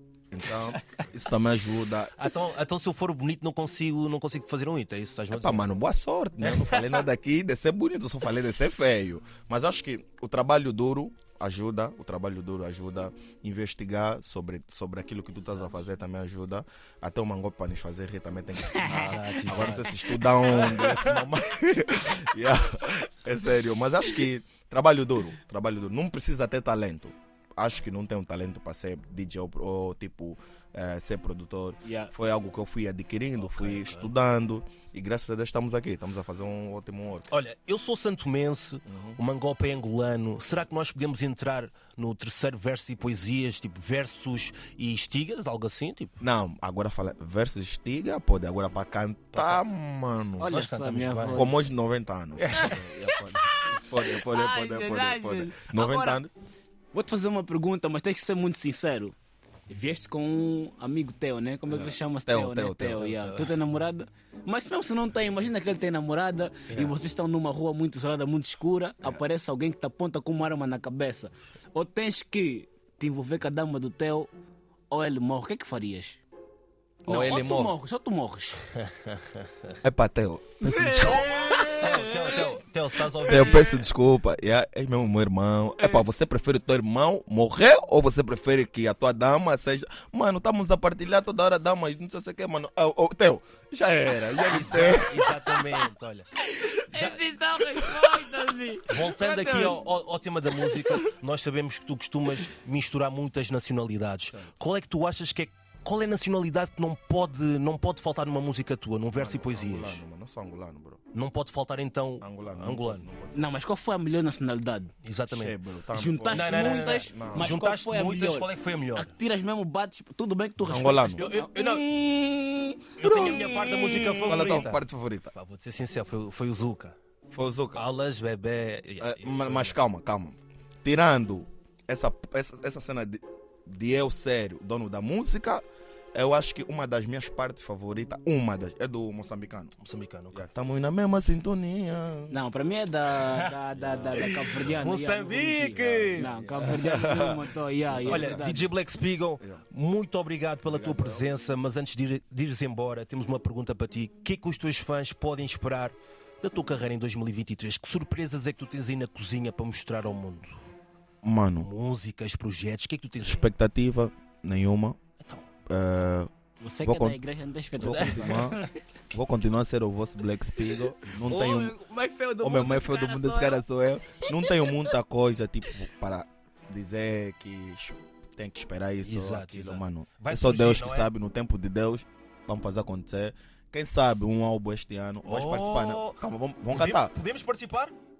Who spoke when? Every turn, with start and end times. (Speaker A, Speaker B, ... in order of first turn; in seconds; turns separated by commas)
Speaker A: 0.3-2.1, Speaker B: 2.2-5.8, Speaker A: 5.3-37.3, Speaker B: 6.4-7.1, Speaker C: 18.6-20.7, Speaker B: 18.9-21.2, Speaker C: 31.8-32.1, Speaker B: 33.4-34.1, Speaker B: 37.3-46.2, Speaker A: 38.9-39.2, Speaker A: 46.2-50.5, Speaker B: 49.3-49.6, Speaker B: 50.4-51.5, Speaker C: 50.4-51.6, Speaker A: 51.3-56.3, Speaker B: 52.4-52.7, Speaker C: 52.5-56.2, Speaker C: 56.9-59.1, Speaker C: 59.7-74.3, Speaker A: 62.2-63.1, Speaker B: 63.0-63.5, Speaker B: 66.7-67.0, Speaker C: 74.9-76.2, Speaker C: 77.0-78.6, Speaker A: 77.1-77.7, Speaker A: 79.8-81.6, Speaker C: 80.6-82.5, Speaker B: 81.0-83.7, Speaker C: 83.1-83.7, Speaker A: 83.2-95.3, Speaker B: 94.4-96.2, Speaker C: 96.4-99.8, Speaker B: 96.9-97.2, Speaker B: 98.9-110.0, Speaker A: 109.1-111.0, Speaker B: 111.1-113.1, Speaker A: 112.2-113.4, Speaker C: 113.3-114.9, Speaker B: 115.0-115.6, Speaker A: 115.3-117.6, Speaker C: 115.9-124.4, Speaker B: 116.3-119.1, Speaker A: 120.6-121.2, Speaker B: 121.1-121.9, Speaker B: 123.0-126.9, Speaker A: 124.2-125.3, Speaker A: 127.3-127.8, Speaker B: 127.7-129.8, Speaker A: 129.0-139.7, Speaker B: 139.8-140.5, Speaker A: 140.3-142.4, Speaker C: 142.3-148.7, Speaker B: 143.2-143.5, Speaker A: 143.7-144.7, Speaker B: 144.1-147.0, Speaker A: 146.2-148.5, Speaker B: 148.1-160.6, Speaker A: 150.7-151.3, Speaker A: 161.2-161.7, Speaker B: 161.6-163.5, Speaker A: 163.2-165.0, Speaker B: 165.2-165.4, Speaker A: 165.7-166.3, Speaker C: 166.6-168.7, Speaker A: 166.8-167.2, Speaker A: 167.8-168.6, Speaker B: 167.8-168.7, Speaker A: 169.1-171.7, Speaker C: 171.2-174.9, Speaker A: 172.4-187.1, Speaker B: 179.0-181.1, Speaker B: 185.2-187.9